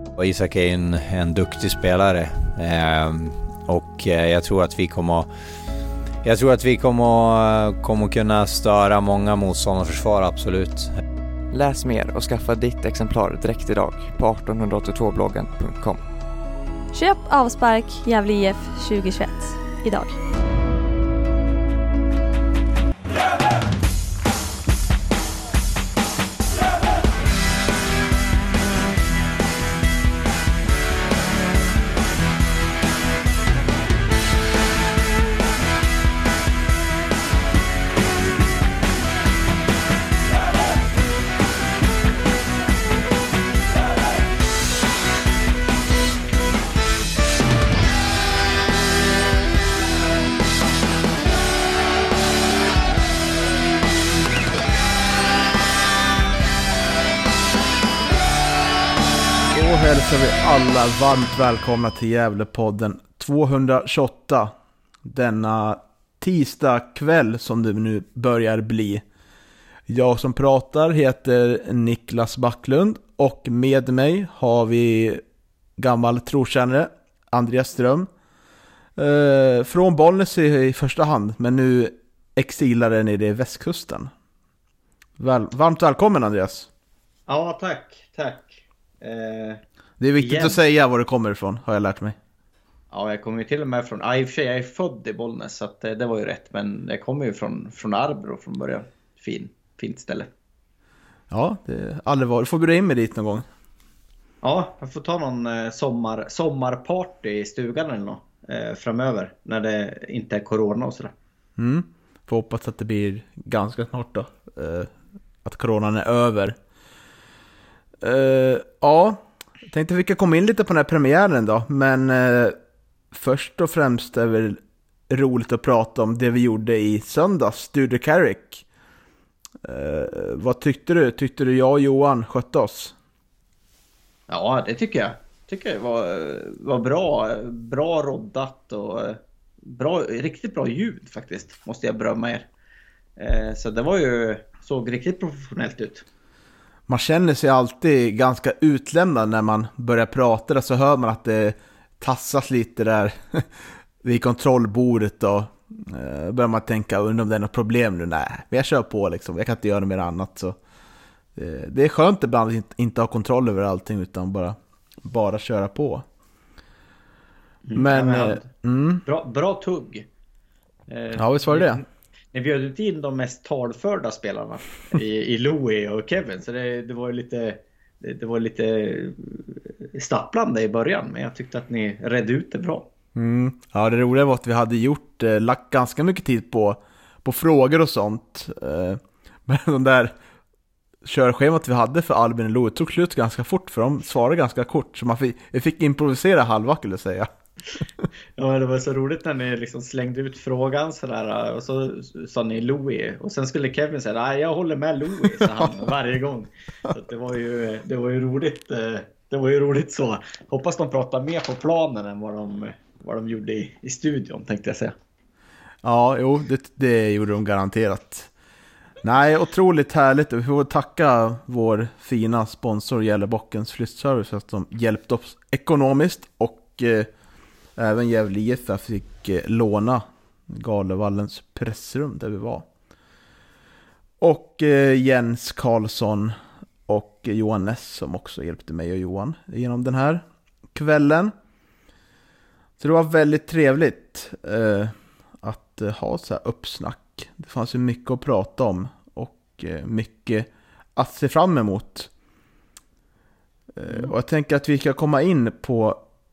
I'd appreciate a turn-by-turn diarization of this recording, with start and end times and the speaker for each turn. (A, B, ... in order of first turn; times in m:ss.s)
0:00.2-0:05.3 A
0:06.2-0:10.9 A
0:11.5-0:16.1 B
0:16.9-0:20.2 C
0:59.5-1:04.5 D
1:05.0-1:09.0 D
1:09.9-1:15.2 D
1:15.8-1:18.1 D
1:19.0-1:24.1 D
1:25.2-1:26.7 D
1:27.3-1:29.6 E
1:30.0-1:32.2 D
1:30.2-1:30.6 E
1:32.9-1:40.3 E
1:41.3-1:43.5 D
1:44.4-1:51.1 E
1:51.6-1:54.9 D
1:55.4-1:56.6 D
1:58.0-2:02.6 D
2:03.1-2:08.6 D
2:09.6-2:12.9 D
2:14.3-2:22.5 E
2:23.2-2:26.1 E
2:26.9-2:33.5 D
2:34.0-2:40.6 D
2:41.4-2:46.0 D
2:47.6-2:48.5 E
2:47.8-2:49.0 D
2:49.0-2:50.1 E
2:50.9-3:02.9 E
2:51.2-2:51.8 D
3:03.2-3:10.2 D
3:11.0-3:17.3 D
3:18.4-3:34.9 E
3:35.8-3:38.3 D
3:39.0-3:47.1 D
3:47.8-3:52.7 D
3:54.2-3:56.4 D
3:56.9-4:01.3 D
4:02.8-4:12.1 D
4:13.8-4:16.0 D